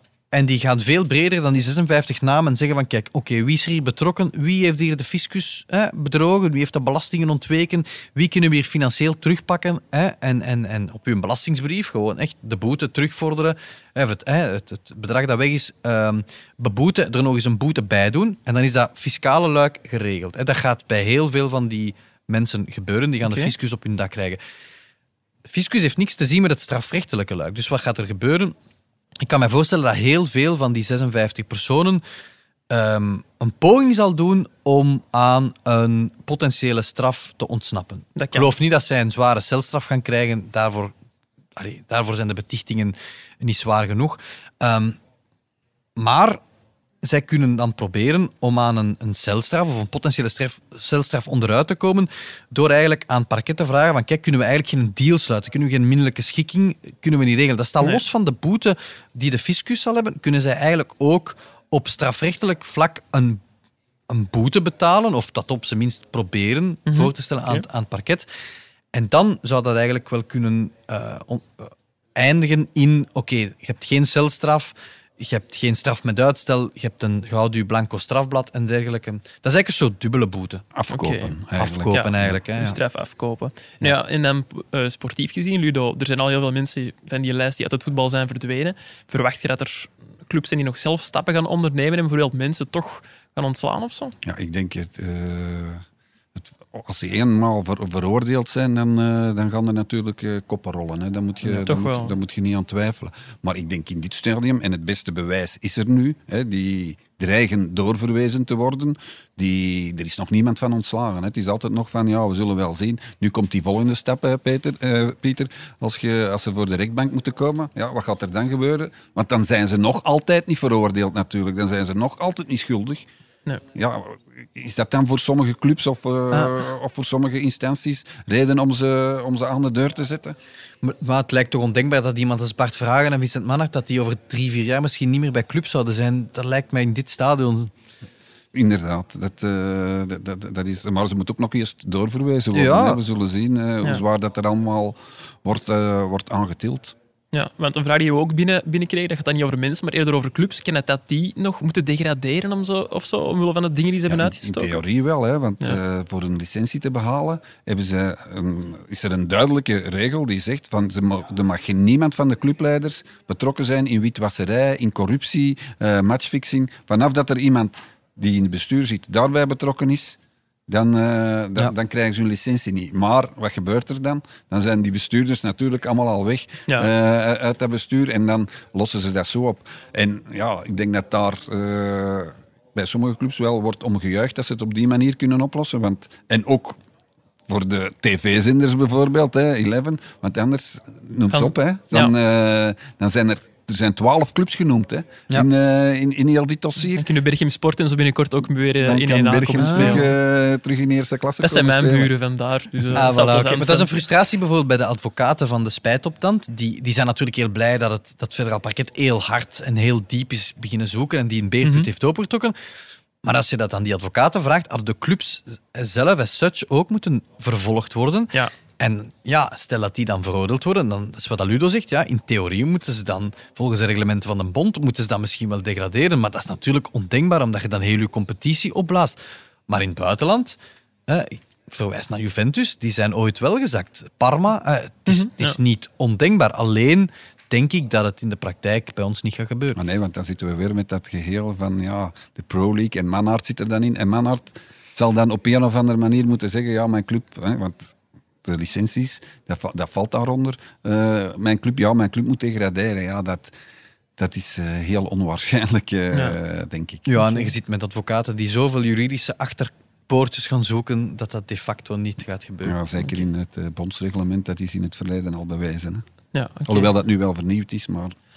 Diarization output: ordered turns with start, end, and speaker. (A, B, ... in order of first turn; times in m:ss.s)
0:00.3-0:24.4 A
0:23.2-0:23.5 B
0:25.4-0:28.5 A
0:29.2-0:32.0 A
0:32.7-0:40.9 A
0:38.2-0:38.5 B
0:41.6-0:45.0 A
0:46.0-0:46.4 A
0:47.0-1:03.4 A
1:04.1-1:08.3 A
1:06.9-1:07.6 B
1:08.9-1:20.6 A
1:20.7-1:22.4 C
1:20.9-1:21.3 B
1:21.6-1:22.8 A
1:21.9-1:34.2 B
1:34.2-2:03.0 C
1:41.6-1:42.1 B
2:03.7-2:10.4 C
2:10.8-2:17.7 A
2:18.5-2:27.0 C
2:22.5-2:23.0 A
2:27.3-2:34.8 B
2:34.1-3:06.8 C
3:07.5-3:17.1 C
3:11.3-3:12.1 B
3:16.9-3:20.1 B
3:18.8-3:22.1 C
3:19.6-3:20.0 A
3:21.4-3:23.9 B
3:22.9-3:32.5 A
3:31.6-3:31.9 B
3:33.2-3:59.8 A
3:55.1-3:55.6 B
3:59.8-4:13.5 C
4:14.2-4:17.1 C
4:17.0-4:22.8 A
4:17.2-4:17.5 B
4:22.6-4:26.0 C
4:26.3-4:26.9 B
4:26.7-4:28.2 C